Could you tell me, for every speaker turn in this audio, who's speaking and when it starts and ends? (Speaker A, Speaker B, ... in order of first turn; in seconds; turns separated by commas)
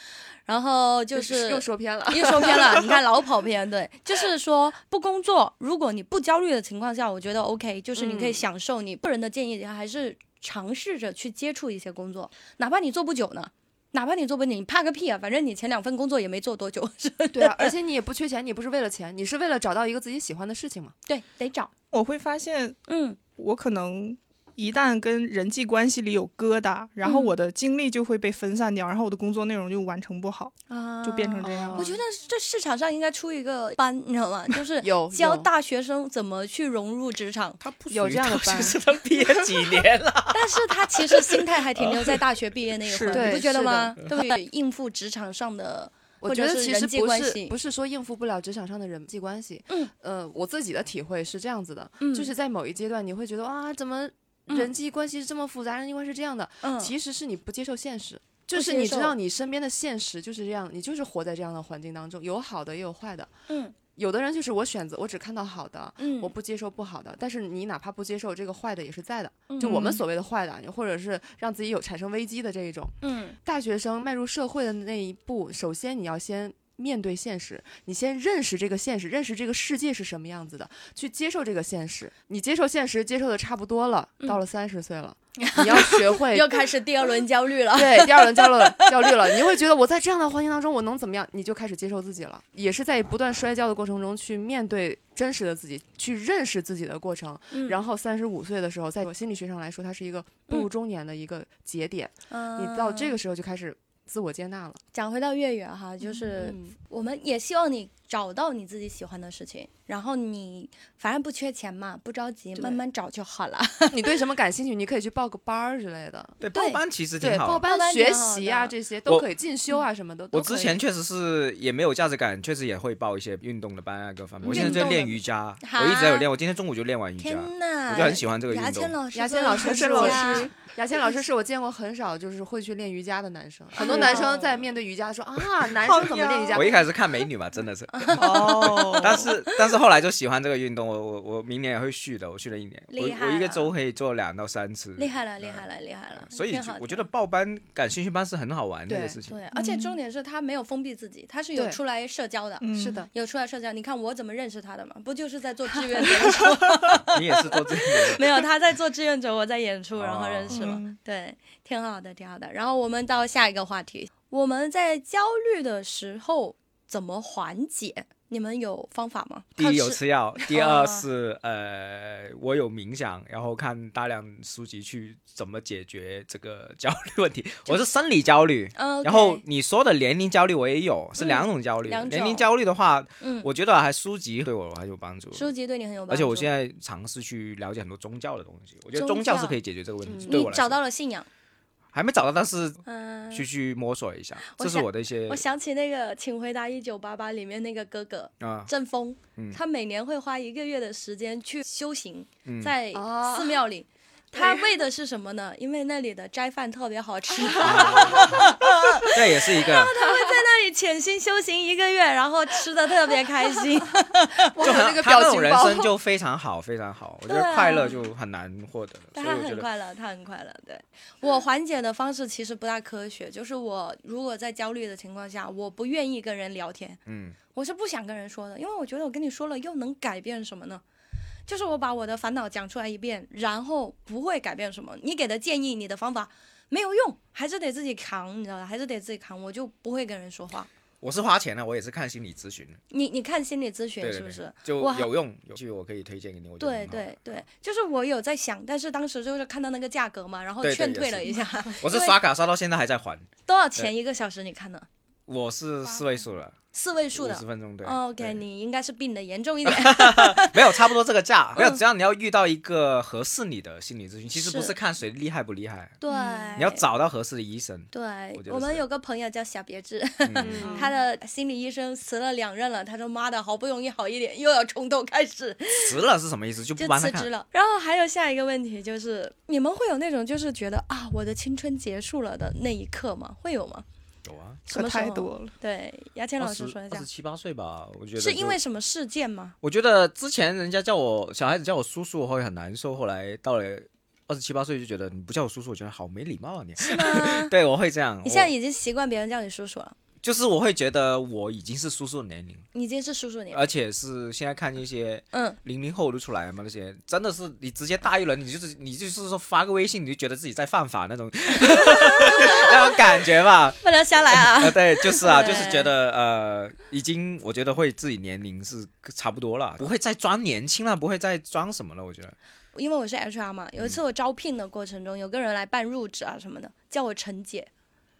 Speaker A: 0.5-17.7, Speaker B: 1.1-3.0, Speaker B: 8.0-8.4, Speaker B: 17.3-20.9, Speaker A: 21.1-21.7, Speaker C: 21.9-22.8, Speaker A: 22.9-23.2, Speaker C: 23.4-31.9, Speaker A: 27.0-27.3, Speaker A: 30.7-37.6, Speaker B: 31.4-32.0, Speaker B: 34.8-35.5, Speaker D: 37.6-42.2, Speaker B: 37.9-38.8, Speaker A: 40.3-47.5, Speaker C: 42.9-43.4, Speaker B: 43.1-44.0, Speaker B: 46.2-63.3, Speaker A: 52.0-52.3, Speaker A: 56.6-56.9, Speaker A: 58.5-59.2, Speaker A: 63.5-63.8, Speaker B: 64.0-86.7, Speaker A: 66.0-66.3, Speaker A: 69.5-70.0, Speaker A: 73.0-73.4, Speaker A: 85.4-89.1, Speaker B: 87.7-104.8, Speaker A: 97.5-97.8, Speaker A: 102.3-103.2, Speaker A: 104.9-114.2, Speaker B: 106.0-106.8, Speaker B: 112.6-112.8, Speaker B: 113.9-116.4, Speaker D: 116.4-117.7, Speaker A: 116.5-116.8, Speaker B: 117.2-120.8, Speaker A: 117.7-118.7, Speaker D: 120.3-128.9, Speaker B: 124.4-124.9, Speaker A: 124.4-126.3, Speaker A: 127.2-130.5, Speaker B: 129.1-136.8, Speaker C: 129.6-130.5, Speaker C: 133.8-134.2, Speaker A: 133.8-134.6, Speaker C: 135.8-136.6, Speaker D: 136.5-145.6, Speaker A: 137.9-139.3, Speaker C: 138.1-139.3, Speaker A: 142.9-143.7, Speaker A: 145.0-147.1, Speaker D: 146.2-149.4, Speaker B: 148.9-149.2, Speaker A: 149.3-171.0, Speaker C: 149.6-150.0, Speaker C: 152.6-153.0, Speaker B: 152.7-153.1, Speaker C: 156.2-156.4, Speaker D: 156.9-158.2, Speaker D: 160.0-160.8, Speaker C: 160.5-161.0, Speaker D: 169.6-185.5, Speaker A: 178.8-179.4, Speaker A: 181.2-182.5, Speaker A: 183.2-183.5, Speaker A: 185.3-186.5, Speaker D: 186.1-190.8, Speaker A: 188.9-189.6, Speaker B: 190.1-190.5, Speaker A: 190.3-191.3, Speaker D: 191.9-195.4, Speaker A: 192.9-193.4, Speaker A: 194.4-214.5, Speaker D: 198.4-198.7, Speaker D: 202.4-202.7, Speaker B: 202.9-203.6, Speaker B: 204.3-204.7, Speaker D: 207.6-209.9, Speaker B: 207.7-208.4, Speaker B: 210.0-210.3, Speaker B: 214.5-215.9, Speaker D: 214.6-219.7, Speaker A: 217.3-218.0, Speaker A: 219.2-227.0, Speaker D: 227.1-227.4, Speaker A: 227.5-230.8, Speaker A: 231.5-240.7, Speaker D: 241.0-242.8, Speaker A: 242.9-245.1, Speaker D: 244.0-247.4, Speaker A: 246.6-252.2, Speaker D: 250.6-253.9, Speaker A: 253.5-254.9, Speaker D: 255.3-256.6, Speaker A: 256.7-260.8, Speaker D: 257.1-258.4, Speaker D: 259.6-266.0, Speaker A: 261.6-261.8, Speaker A: 264.3-264.8, Speaker A: 266.0-266.9, Speaker D: 266.6-268.8, Speaker A: 267.9-276.0, Speaker D: 270.2-270.7, Speaker B: 270.4-270.9, Speaker C: 270.6-270.9, Speaker D: 275.8-277.3, Speaker A: 276.8-283.9, Speaker D: 284.2-284.6, Speaker C: 284.7-285.5, Speaker A: 284.7-287.1, Speaker D: 286.4-288.6, Speaker A: 288.2-289.6, Speaker D: 289.6-298.5, Speaker A: 296.8-297.5, Speaker A: 298.2-300.0, Speaker D: 300.2-302.7, Speaker A: 302.7-303.6, Speaker D: 303.5-322.4, Speaker A: 311.9-312.9, Speaker A: 313.8-315.9, Speaker A: 322.7-327.7